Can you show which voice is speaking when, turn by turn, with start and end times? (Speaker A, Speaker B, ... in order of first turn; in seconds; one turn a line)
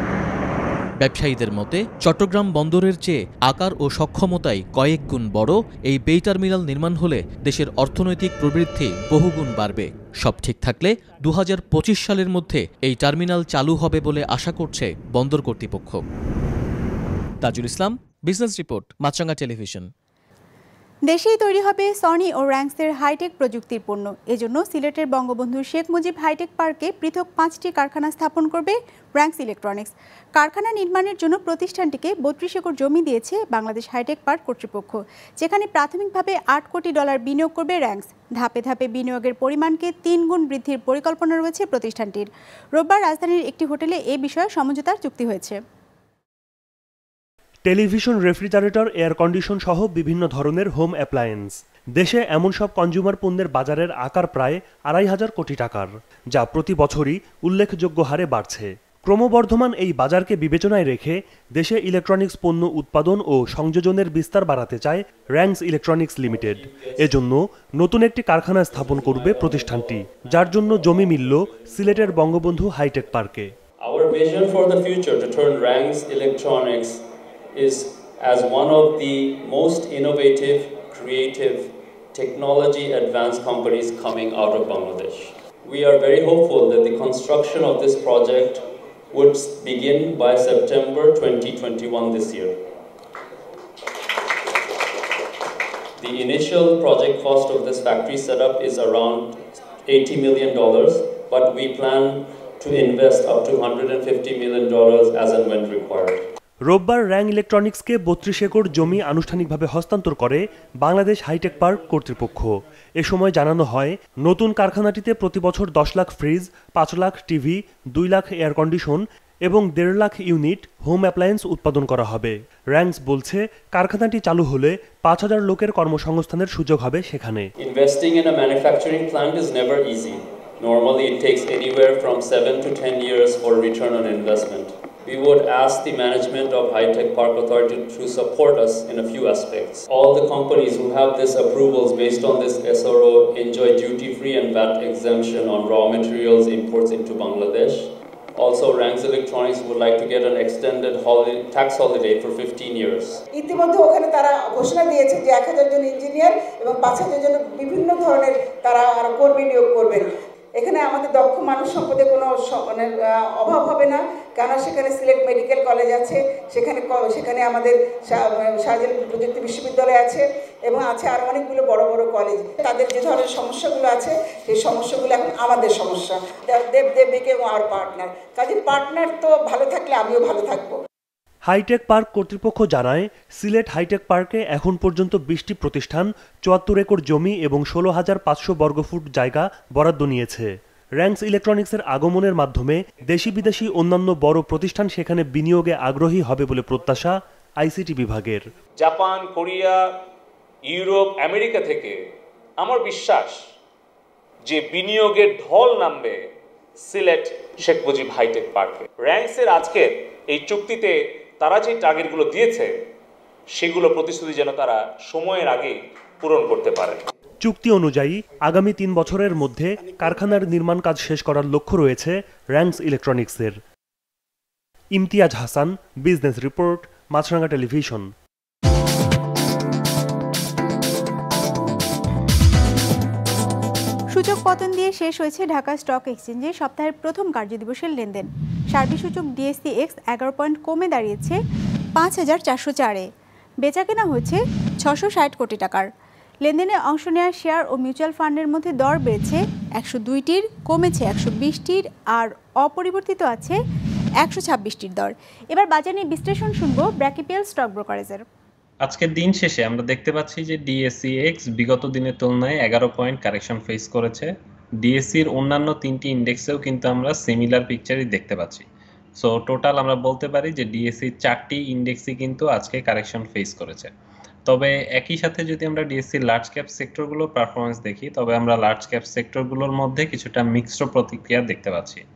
Speaker A: 1.0-16.0
Speaker A: 17.4-19.9
Speaker B: 21.1-45.6
Speaker C: 47.6-73.5
Speaker D: 66.3-67.0
Speaker D: 68.8-70.0
Speaker D: 73.8-77.0
Speaker D: 77.5-92.5
Speaker D: 96.0-99.3
Speaker D: 99.9-106.2
Speaker C: 106.7-127.5
Speaker D: 127.6-153.2
Speaker E: 153.3-180.8
Speaker C: 181.5-198.4
Speaker F: 198.8-199.8
Speaker F: 200.7-202.0
Speaker F: 202.6-203.4
Speaker F: 204.5-206.2
Speaker F: 206.9-212.7
Speaker F: 213.6-217.0
Speaker C: 217.4-223.6
Speaker C: 224.9-228.1
Speaker B: 234.1-241.4
Speaker B: 242.0-243.1
Speaker B: 243.6-245.9
Speaker B: 246.4-253.6
Speaker B: 254.2-258.2
Speaker G: 258.8-264.3
Speaker G: 264.8-268.6
Speaker G: 269.2-273.9
Speaker G: 274.5-282.0